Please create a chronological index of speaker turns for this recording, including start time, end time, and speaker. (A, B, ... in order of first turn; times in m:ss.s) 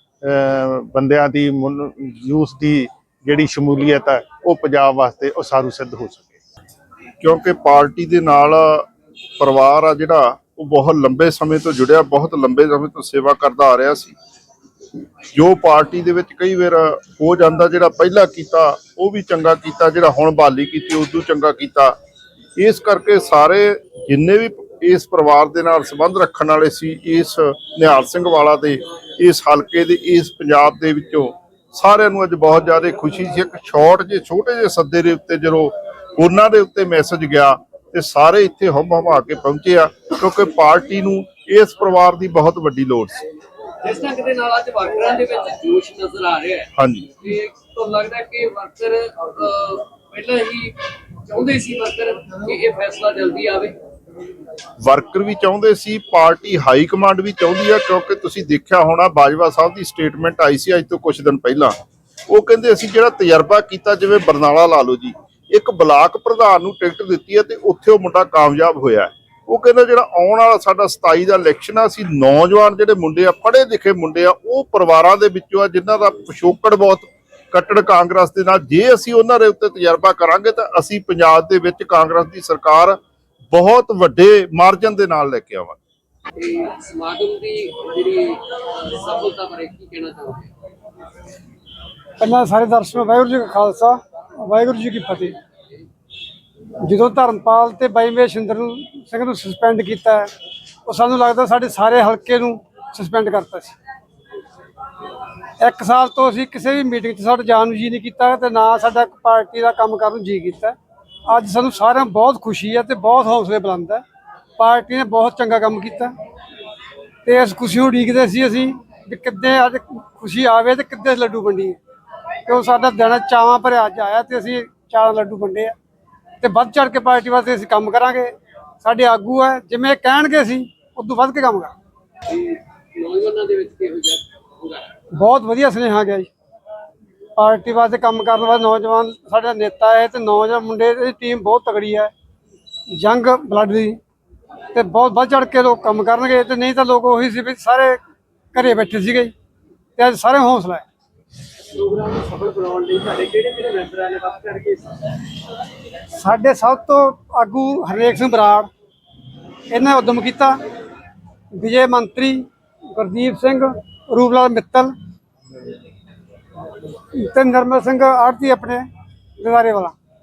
0:00.2-0:06.3 A
0:07.2-0:08.9 B
0:09.4-0:14.2 B
0:15.3-0:22.0 B
0:22.6-0:43.3 B
0:43.8-0:50.8 C
0:46.8-0:47.1 B
0:51.3-0:53.8 C
0:54.8-1:01.8 B
1:02.3-1:23.0 B
1:23.5-1:25.8 B
1:26.4-1:30.5 C
1:32.2-1:35.4 D
1:36.8-1:40.3 D
1:40.9-1:43.8 D
1:45.6-1:54.0 D
1:54.6-1:56.1 D
1:57.2-2:01.8 D
2:02.5-2:05.8 D
2:06.4-2:11.7 D
2:12.3-2:14.9 C
2:15.1-2:16.3 D
2:17.4-2:22.1 D
2:22.9-2:24.0 D
2:24.7-2:28.0 D
2:28.5-2:29.3 D
2:30.0-2:30.8 D
2:31.7-2:34.9 C
2:36.2-2:38.7 D
2:39.7-2:40.6 D
2:41.5-2:44.9 D
2:47.1-2:48.8 D
2:49.4-2:49.9 D